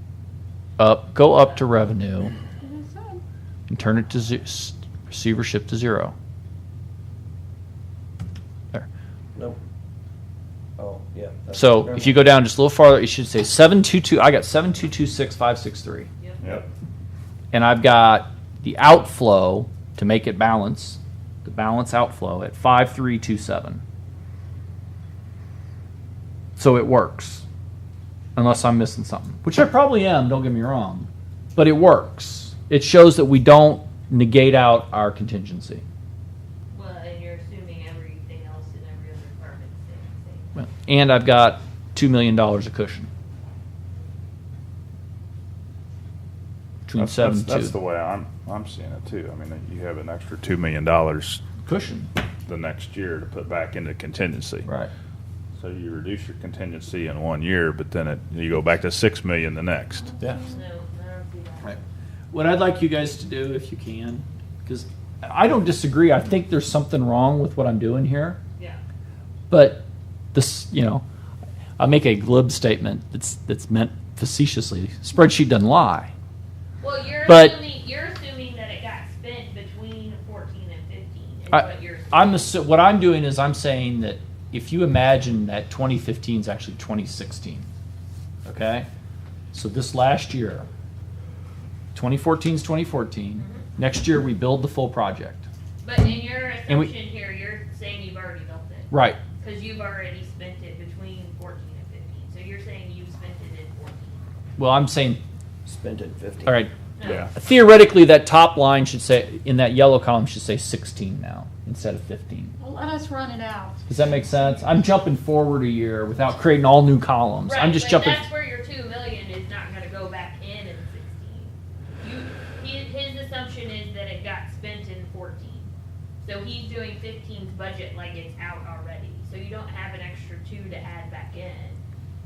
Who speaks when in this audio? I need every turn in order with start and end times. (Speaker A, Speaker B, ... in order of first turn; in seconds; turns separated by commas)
Speaker A: 0.8-2.3, Speaker B: 1.3-1.6, Speaker C: 2.6-3.2, Speaker A: 3.7-6.1, Speaker D: 10.8-12.2, Speaker A: 11.5-16.1, Speaker E: 16.4-16.7, Speaker A: 17.5-23.8, Speaker A: 26.6-27.4, Speaker A: 28.4-35.8, Speaker B: 36.7-40.5, Speaker A: 40.5-43.1, Speaker A: 46.9-47.8, Speaker E: 47.0-51.4, Speaker A: 51.6-52.1, Speaker E: 52.5-54.7, Speaker A: 54.6-54.9, Speaker E: 55.6-60.2, Speaker C: 60.0-60.6, Speaker B: 60.5-61.8, Speaker A: 62.3-68.4, Speaker A: 69.5-71.0, Speaker A: 71.8-76.1, Speaker B: 76.8-82.5, Speaker A: 77.3-77.6, Speaker A: 81.5-87.7, Speaker A: 88.5-88.9, Speaker A: 89.5-90.7, Speaker A: 91.9-95.5, Speaker B: 93.4-93.7, Speaker B: 95.8-104.2, Speaker A: 98.9-99.2, Speaker A: 104.6-105.2, Speaker D: 105.7-106.6, Speaker A: 106.5-106.7, Speaker B: 107.0-107.3, Speaker E: 107.0-107.3, Speaker A: 107.3-112.5, Speaker C: 112.6-114.7, Speaker A: 113.9-118.3, Speaker B: 117.5-125.7, Speaker B: 126.2-131.8